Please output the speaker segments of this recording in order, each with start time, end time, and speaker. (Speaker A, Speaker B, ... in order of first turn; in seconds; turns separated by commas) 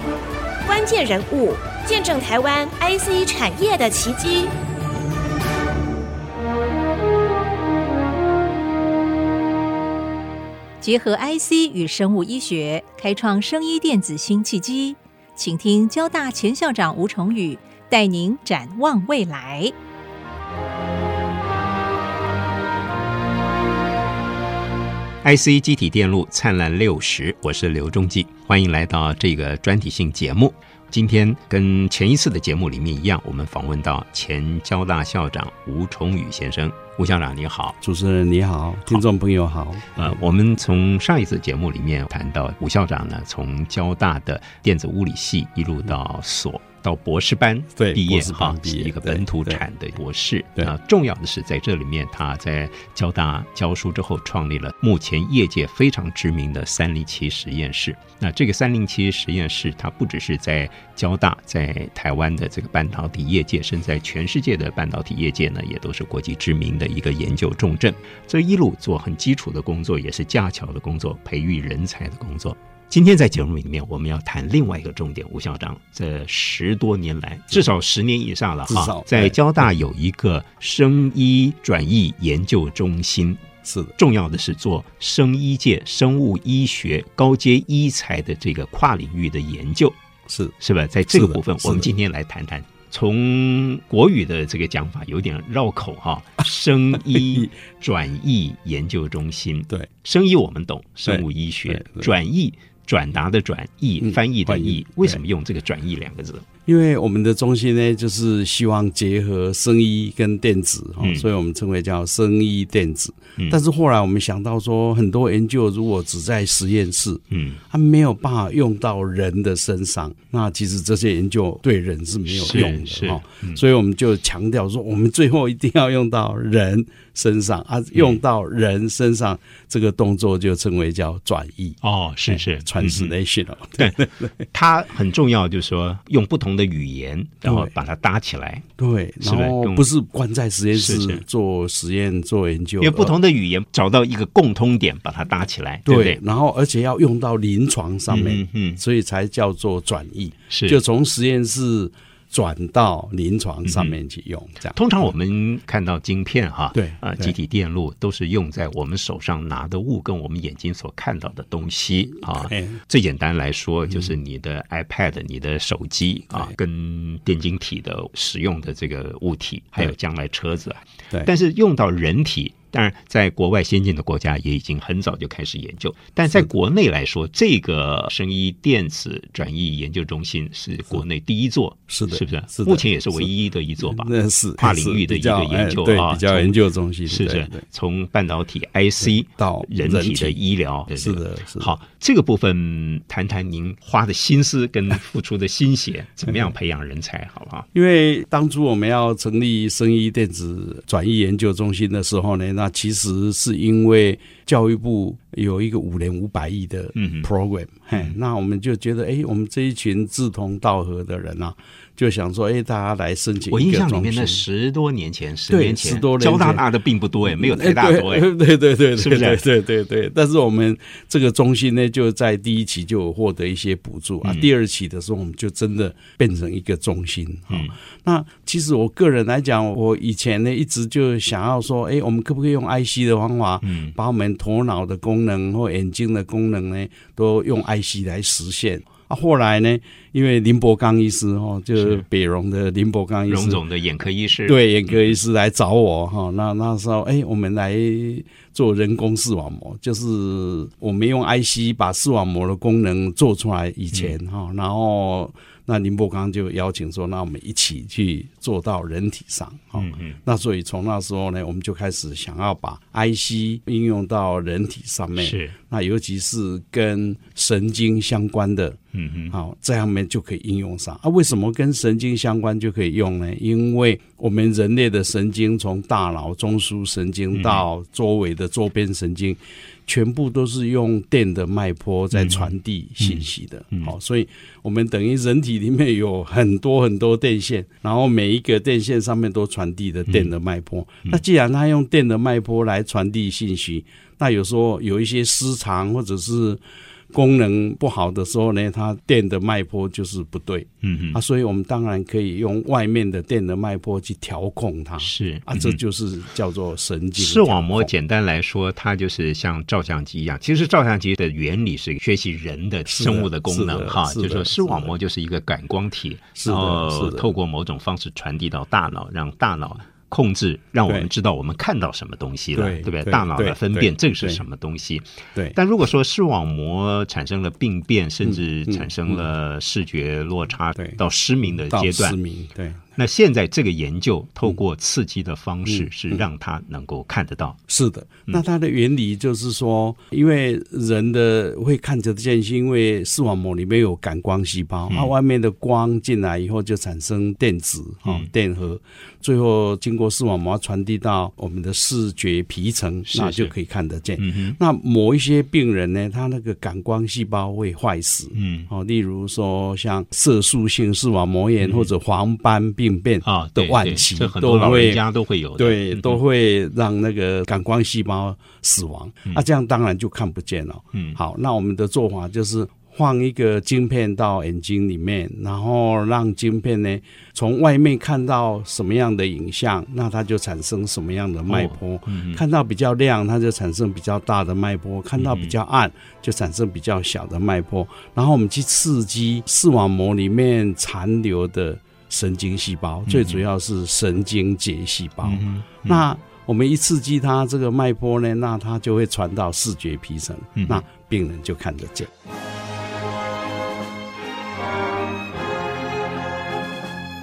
Speaker A: 0.6-4.5, Speaker B: 10.8-19.7, Speaker C: 25.2-37.8, Speaker D: 37.8-40.0, Speaker C: 39.9-83.4, Speaker D: 47.7-49.6, Speaker D: 78.7-79.3, Speaker D: 83.6-83.9, Speaker C: 84.0-90.0, Speaker D: 90.3-90.5, Speaker C: 90.6-106.5, Speaker D: 91.1-91.9, Speaker D: 101.0-102.1, Speaker D: 104.0-105.2, Speaker D: 106.7-134.4, Speaker C: 111.0-111.3, Speaker C: 117.3-117.6, Speaker C: 122.3-123.6, Speaker C: 127.9-128.2, Speaker C: 131.8-133.1, Speaker C: 133.8-138.7, Speaker D: 137.4-137.7, Speaker D: 138.8-143.2, Speaker C: 139.2-139.8, Speaker C: 140.7-141.2, Speaker C: 142.8-146.2, Speaker D: 145.8-154.8, Speaker C: 148.1-148.8, Speaker C: 150.5-150.8, Speaker C: 153.7-153.9, Speaker C: 154.7-186.5, Speaker D: 156.7-157.3, Speaker D: 162.4-162.8, Speaker D: 181.9-183.3, Speaker D: 183.8-187.6, Speaker C: 187.1-197.7, Speaker D: 189.3-190.4, Speaker D: 190.9-191.7, Speaker D: 197.7-214.4, Speaker C: 206.9-207.3, Speaker C: 213.5-218.3, Speaker D: 215.5-216.6, Speaker D: 217.3-243.6, Speaker C: 218.9-219.4, Speaker C: 233.6-233.9, Speaker C: 241.8-242.0, Speaker C: 243.3-245.0, Speaker D: 244.4-268.8, Speaker C: 259.8-260.2, Speaker C: 265.1-265.5, Speaker C: 268.9-269.3, Speaker D: 269.3-296.6, Speaker C: 277.3-277.6, Speaker C: 282.1-283.9, Speaker D: 297.1-307.9, Speaker C: 300.8-301.2, Speaker C: 305.0-305.8, Speaker C: 307.2-332.2, Speaker D: 312.9-315.0, Speaker D: 316.4-317.3, Speaker D: 322.5-324.4, Speaker D: 328.2-329.2, Speaker D: 331.7-332.8, Speaker C: 332.9-337.6, Speaker D: 337.7-365.0, Speaker C: 353.1-353.5, Speaker C: 354.2-354.6, Speaker C: 358.3-358.7, Speaker C: 361.6-361.9, Speaker C: 363.2-366.2, Speaker D: 365.6-402.1, Speaker C: 381.5-382.4, Speaker C: 385.2-385.6, Speaker C: 393.1-393.4, Speaker C: 395.2-396.0, Speaker C: 400.6-400.8